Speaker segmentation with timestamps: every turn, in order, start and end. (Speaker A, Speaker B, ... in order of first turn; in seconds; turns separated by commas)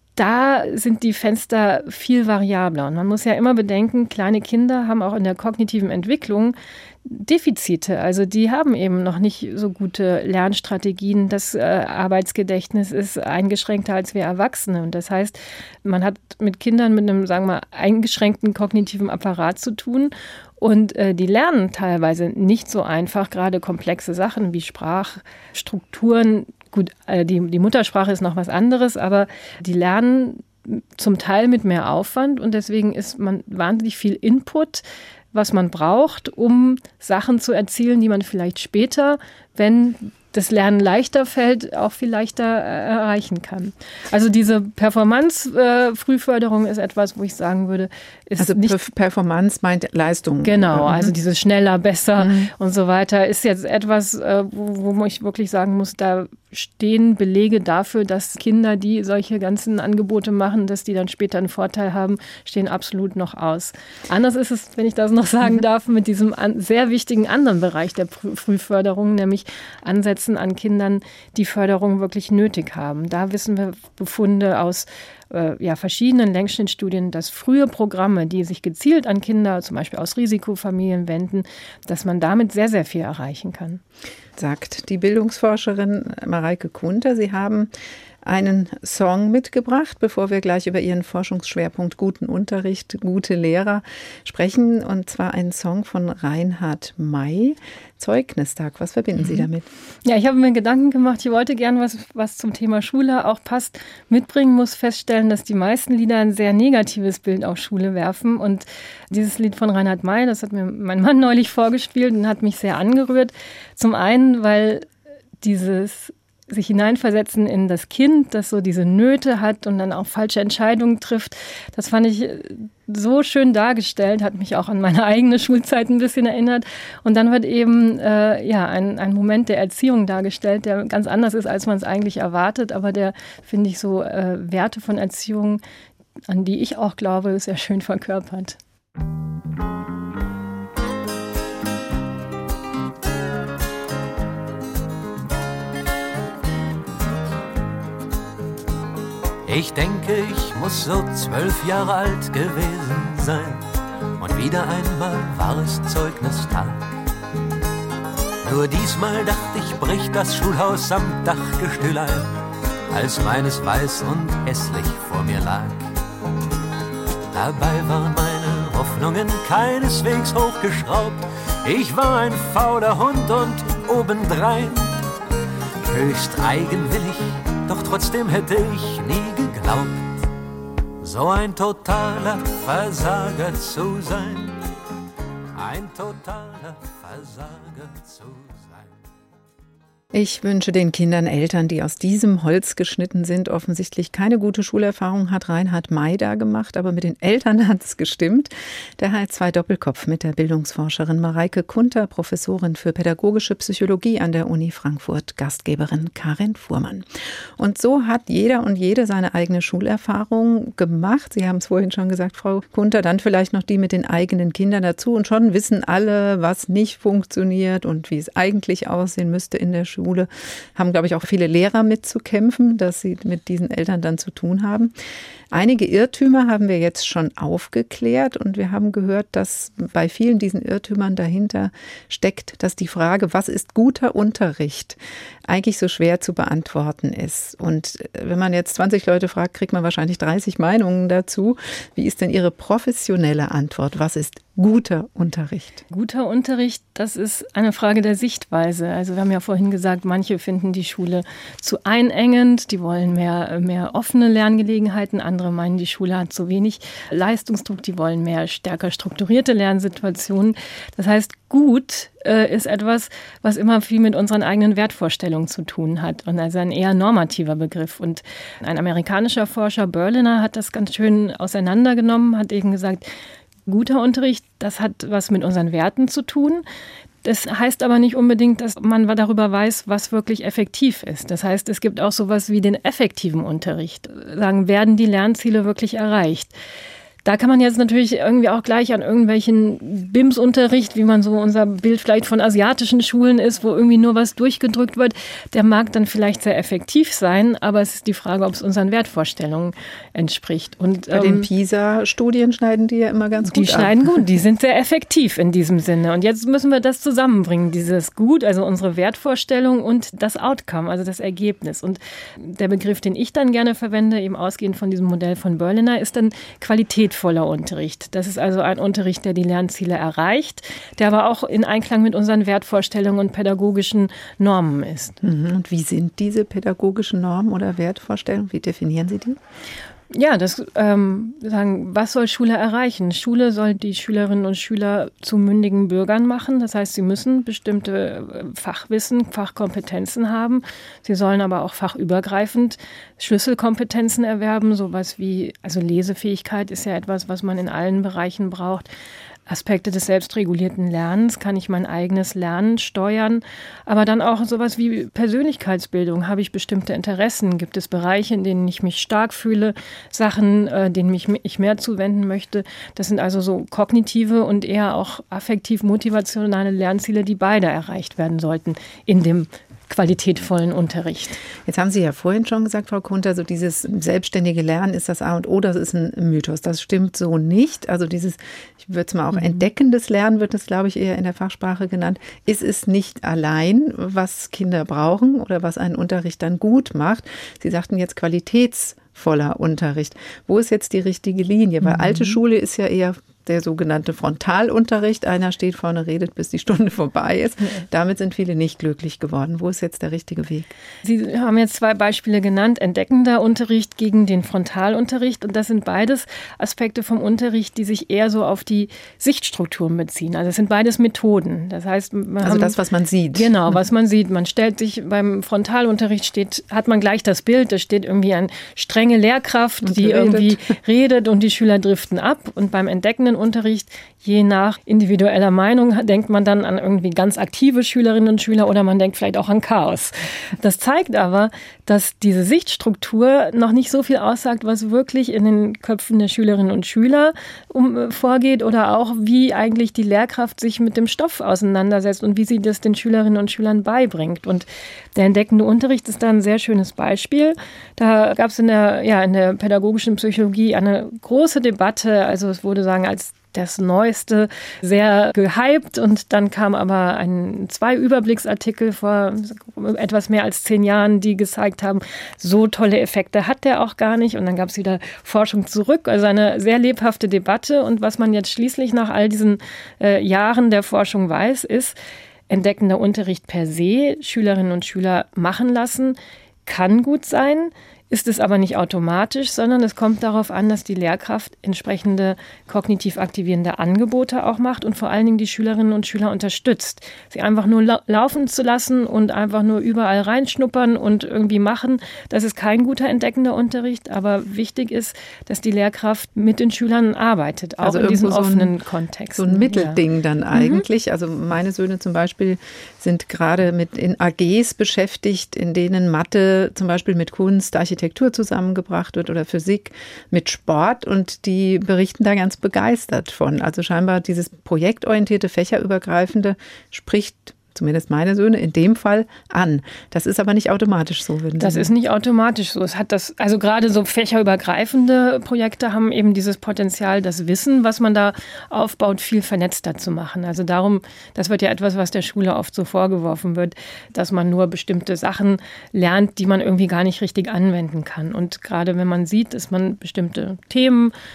Speaker A: 0.1-48.8, Speaker B: 48.4-51.1, Speaker A: 50.4-83.8, Speaker B: 52.2-52.5, Speaker B: 84.4-87.7, Speaker B: 88.2-99.7, Speaker A: 99.2-99.5, Speaker A: 100.0-114.9, Speaker A: 115.4-135.6, Speaker A: 136.3-138.6, Speaker C: 149.4-153.6, Speaker C: 154.2-156.8, Speaker C: 158.4-162.3, Speaker C: 162.9-165.9, Speaker C: 167.3-174.9, Speaker C: 175.8-180.2, Speaker C: 181.0-184.6, Speaker C: 185.5-188.9, Speaker B: 190.1-207.1, Speaker B: 207.6-224.9, Speaker B: 225.5-245.8, Speaker A: 245.9-273.1, Speaker A: 273.6-276.6, Speaker A: 277.2-286.5, Speaker A: 287.2-301.5, Speaker B: 301.1-304.1, Speaker A: 303.4-325.2, Speaker B: 325.2-329.4, Speaker A: 330.1-348.9, Speaker A: 349.5-371.4, Speaker B: 371.6-400.7, Speaker A: 379.3-379.6, Speaker A: 391.9-392.3, Speaker A: 401.0-412.8, Speaker B: 412.4-413.8, Speaker A: 413.3-471.9, Speaker B: 419.8-420.7, Speaker A: 472.5-500.0, Speaker B: 497.8-498.7, Speaker B: 499.3-521.9, Speaker A: 500.5-500.8, Speaker A: 521.6-541.1